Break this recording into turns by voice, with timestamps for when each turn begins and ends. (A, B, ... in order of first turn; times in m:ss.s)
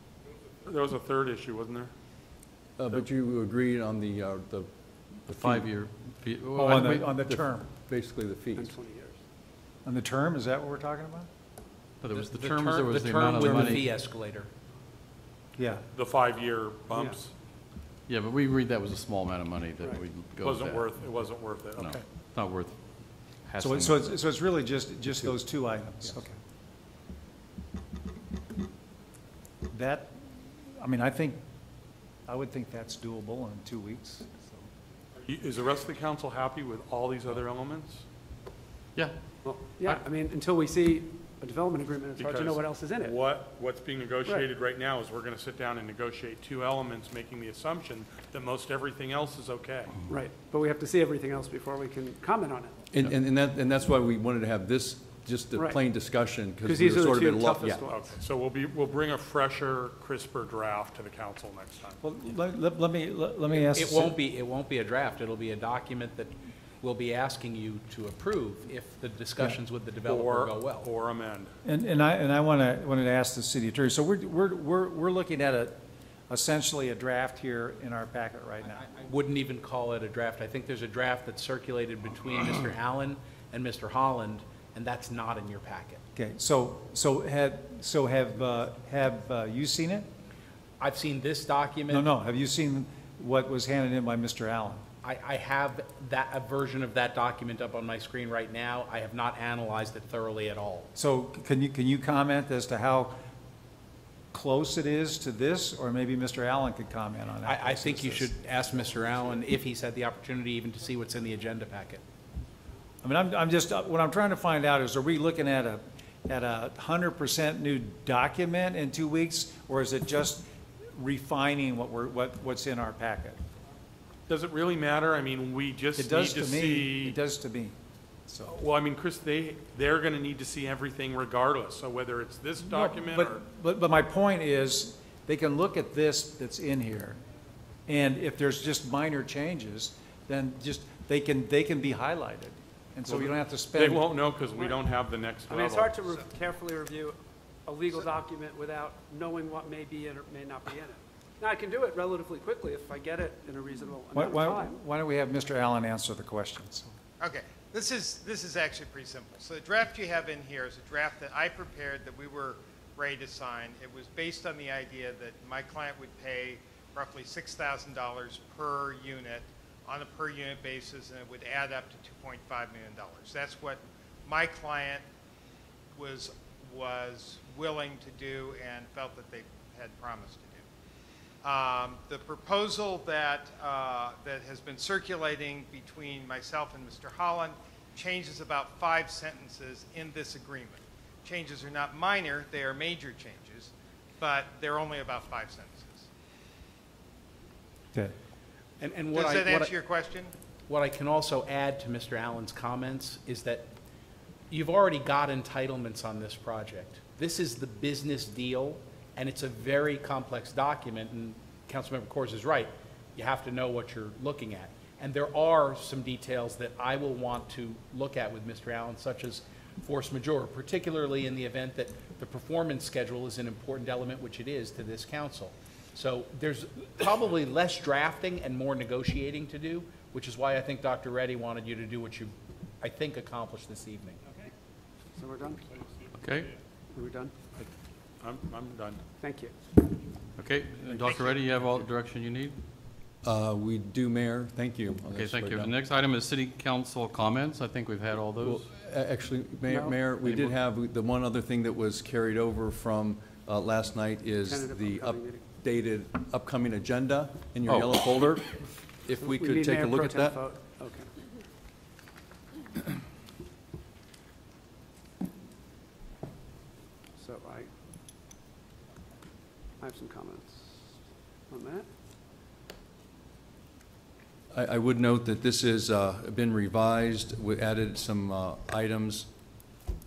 0:00.6-0:01.9 A
0:02.8-0:04.7 B
0:05.2-0:05.7 B
0:05.4-0:07.1 C
0:06.6-0:07.7 D
0:07.2-0:08.7 B
0:08.6-0:09.2 E
0:09.8-0:11.3 D
0:12.0-0:13.9 C
0:12.1-0:14.5 F
0:13.5-0:13.8 D
0:15.6-0:15.8 D
0:15.9-0:17.3 A
0:18.1-0:20.9 C
0:20.4-0:22.0 A
0:21.8-0:22.7 C
0:23.4-0:24.1 C
0:23.6-0:26.4 D
0:29.7-0:31.4 D
0:32.3-0:34.6 D
0:35.1-0:38.0 A
0:39.4-0:43.2 E
0:42.2-0:50.0 A
0:50.0-0:52.7 E
0:52.9-0:57.8 B
0:56.6-0:58.1 E
0:57.9-1:02.0 A
1:02.0-1:04.2 D
1:03.5-1:10.9 F
1:10.0-1:11.5 A
1:11.6-1:18.9 D
1:18.8-1:26.0 F
1:26.1-1:30.1 D
1:30.8-1:32.1 F
1:31.9-1:34.8 D
1:35.0-1:40.9 F
1:40.9-1:43.1 D
1:44.3-1:48.3 D
1:47.4-1:52.0 F
1:53.0-2:03.4 D
2:04.3-2:07.2 A
2:06.0-2:07.7 D
2:08.3-2:08.5 D
2:08.4-2:13.4 A
2:12.6-2:17.2 D
2:17.9-2:24.1 D
2:23.1-2:26.2 A
2:25.5-2:34.8 E
2:34.1-2:36.9 D
2:37.2-2:55.0 G
2:55.9-3:00.6 G
3:01.4-3:16.1 G
3:18.8-3:19.7 F
3:19.1-3:20.3 G
3:20.7-3:23.7 F
3:24.5-3:54.2 F
3:55.2-3:55.6 E
3:56.2-3:56.5 C
3:56.9-3:57.3 E
3:58.2-3:59.0 A
3:59.2-3:59.5 E
4:00.4-4:02.6 C
4:03.2-4:05.7 B
4:05.1-4:08.6 C
4:08.4-4:20.4 B
4:09.7-4:09.9 E
4:10.2-4:10.5 C
4:14.4-4:15.4 E
4:17.6-4:18.3 C
4:19.2-4:21.1 E
4:27.2-4:27.7 E
4:29.8-4:30.8 E
4:31.5-4:31.8 E
4:34.5-4:39.3 B